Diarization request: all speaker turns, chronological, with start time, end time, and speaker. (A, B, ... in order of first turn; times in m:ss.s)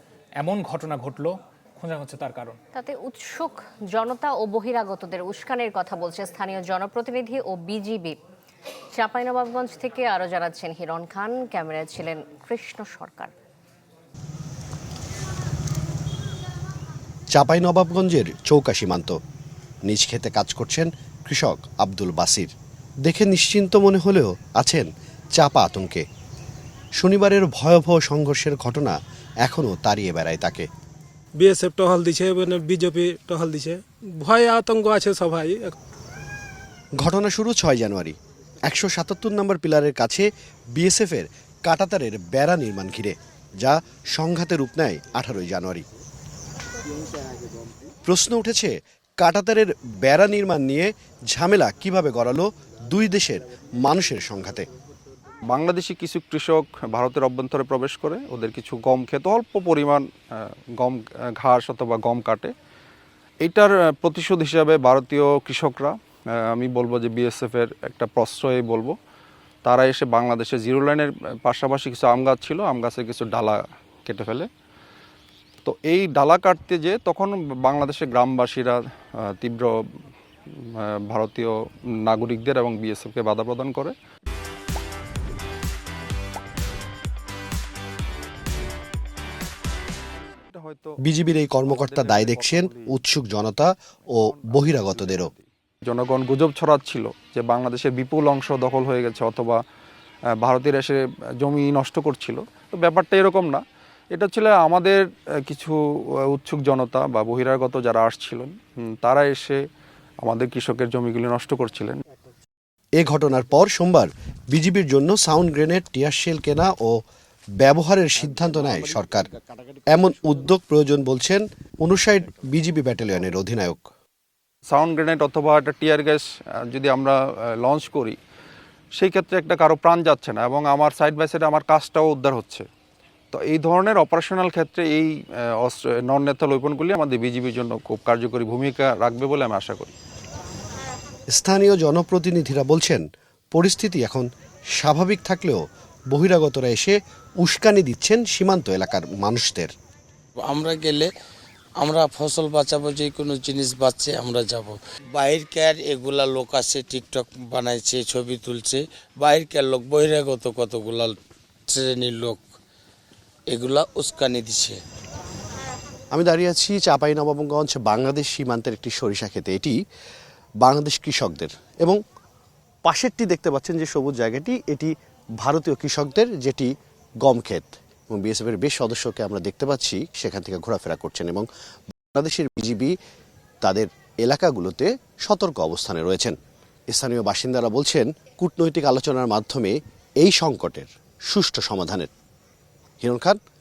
0:00.4-0:02.6 A
0:02.7-0:08.2 B
0:08.9-0:13.3 B
0:17.3-0:19.2 C
0:19.9-0:22.5 C
0:23.0-0:26.0 C
0:27.0-0:30.7 C
0:31.4-0:35.7 D
0:37.0-0:45.8 C
0:48.0-0:54.7 C
0:55.5-1:02.5 E
1:03.4-1:06.0 E
1:06.5-1:09.0 E
1:09.6-1:14.5 E
1:15.6-1:18.8 E
1:19.3-1:19.8 E
1:20.6-1:24.0 E
1:30.5-1:31.0 E
1:31.0-1:35.3 C
1:31.6-1:32.9 E
1:34.1-1:39.6 E
1:40.4-1:43.6 E
1:44.1-1:45.8 E
1:46.3-1:49.6 E
1:50.2-1:52.0 E
1:53.0-1:56.9 C
1:57.6-1:59.3 C
1:59.9-2:03.8 C
2:04.7-2:08.2 E
2:09.0-2:12.7 E
2:13.3-2:19.9 E
2:21.3-2:23.0 C
2:23.5-2:29.7 C
2:30.4-2:31.1 F
2:31.8-2:42.5 F
2:43.5-2:44.8 F
2:46.1-2:49.8 C
2:50.6-2:52.0 C
2:52.8-2:56.7 C
2:57.2-3:01.5 C
3:02.1-3:02.9 C
3:03.6-3:06.4 C
3:06.9-3:12.1 C
3:13.0-3:13.4 C